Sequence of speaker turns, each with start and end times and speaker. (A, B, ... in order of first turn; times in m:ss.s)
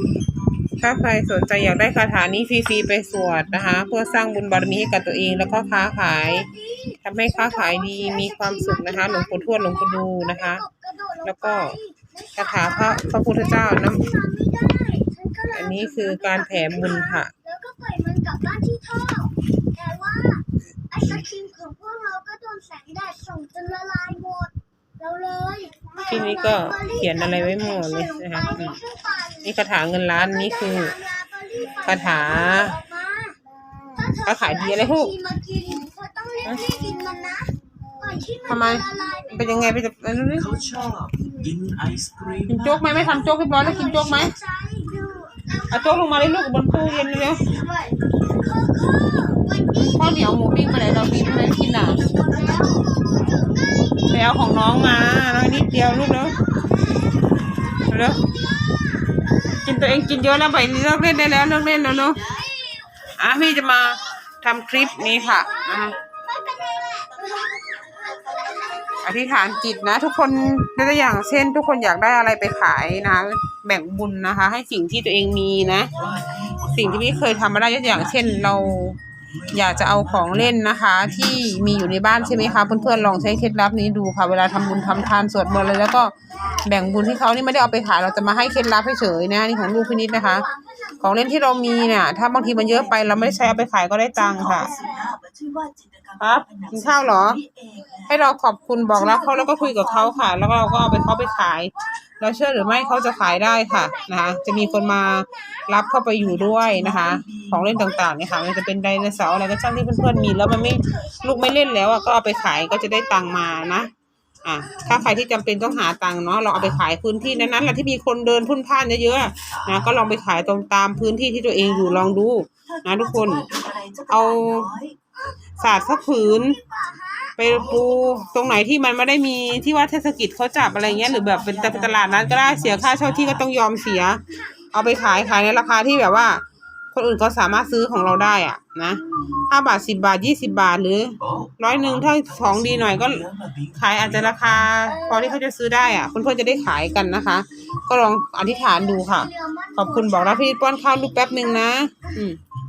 0:00.8-0:06.5 A
0:07.0-0:10.6 A
0:07.3-0:29.4 B
0:11.2-0:11.8 A
0:12.4-0:14.1 A
0:15.5-0:17.3 A
0:26.0-0:28.8 A
0:29.4-0:31.0 A
0:30.3-0:33.4 B
0:31.8-0:32.8 A
0:33.9-0:39.6 B
0:34.2-0:35.1 A
0:38.5-0:40.6 A
0:40.5-0:43.0 C
0:42.5-0:44.4 A
0:43.5-0:51.5 B
0:45.7-0:47.5 A
0:49.7-0:52.0 A
0:52.0-0:53.9 B
0:54.1-0:56.4 A
0:57.9-0:58.3 A
0:58.7-0:59.1 B
0:59.5-1:02.3 A
1:03.2-1:06.0 A
1:05.3-1:09.2 B
1:09.0-1:15.9 A
1:16.0-1:17.4 C
1:16.6-1:19.0 A
1:18.2-1:18.6 C
1:19.5-1:20.3 C
1:19.5-1:30.5 A
1:21.3-1:23.0 C
1:29.7-1:32.9 B
1:31.0-1:34.8 A
1:34.3-1:38.0 C
1:34.5-1:35.2 B
1:36.2-1:37.4 A
1:38.1-1:53.9 A
1:42.9-1:45.8 B
1:47.0-1:47.5 C
1:49.5-1:53.5 B
1:54.4-2:03.5 A
2:03.3-2:05.0 C
2:04.1-2:04.7 A
2:05.6-2:06.6 A
2:06.0-2:07.3 B
2:07.4-2:32.4 A
2:11.7-2:13.3 C
2:22.5-2:24.5 C
2:28.4-2:32.1 B